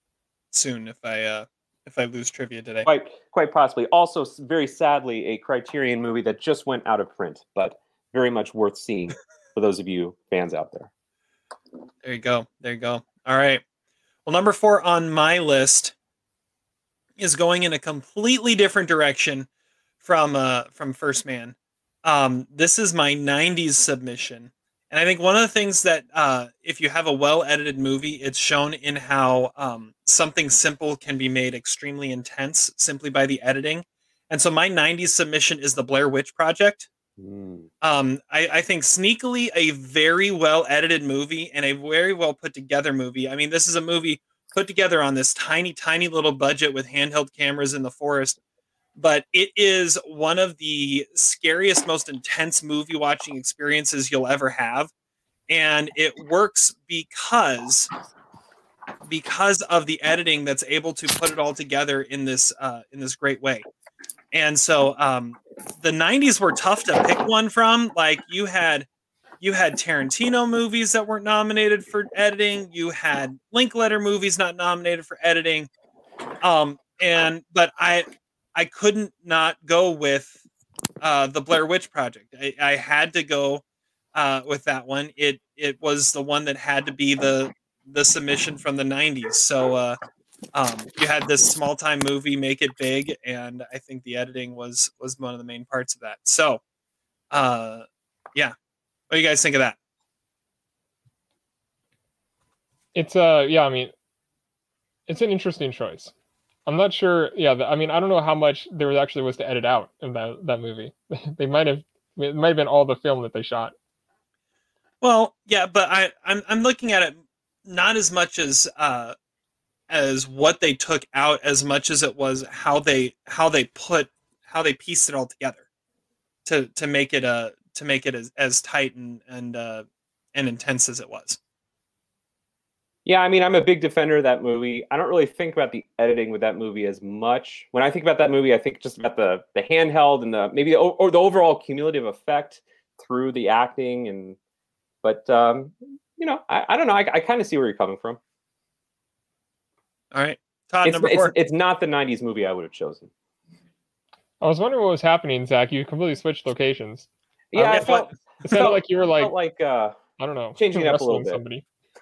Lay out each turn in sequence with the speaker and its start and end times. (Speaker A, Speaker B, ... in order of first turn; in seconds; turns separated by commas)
Speaker A: 0.5-2.9, Speaker B: 2.8-10.9, Speaker A: 12.0-13.6, Speaker A: 14.2-15.9, Speaker A: 17.2-19.5, Speaker A: 20.0-36.9, Speaker B: 37.2-37.7, Speaker A: 37.8-48.4, Speaker A: 49.0-54.9, Speaker A: 55.5-57.9, Speaker A: 59.0-63.6, Speaker A: 64.3-68.9, Speaker A: 69.4-75.7, Speaker A: 76.4-80.3, Speaker A: 81.0-83.6, Speaker A: 84.1-90.0, Speaker A: 90.5-96.6, Speaker A: 97.3-98.5, Speaker A: 99.1-99.8, Speaker C: 102.9-103.9, Speaker C: 105.1-106.1, Speaker C: 106.7-113.7, Speaker A: 115.0-119.1, Speaker A: 119.9-125.6, Speaker A: 126.5-131.4, Speaker B: 133.1-144.4, Speaker B: 145.0-148.2, Speaker A: 150.1-151.3, Speaker B: 150.8-153.1, Speaker C: 154.4-157.1, Speaker B: 157.5-160.0, Speaker A: 157.6-158.1, Speaker C: 158.4-159.3, Speaker C: 160.2-161.6, Speaker B: 160.6-161.4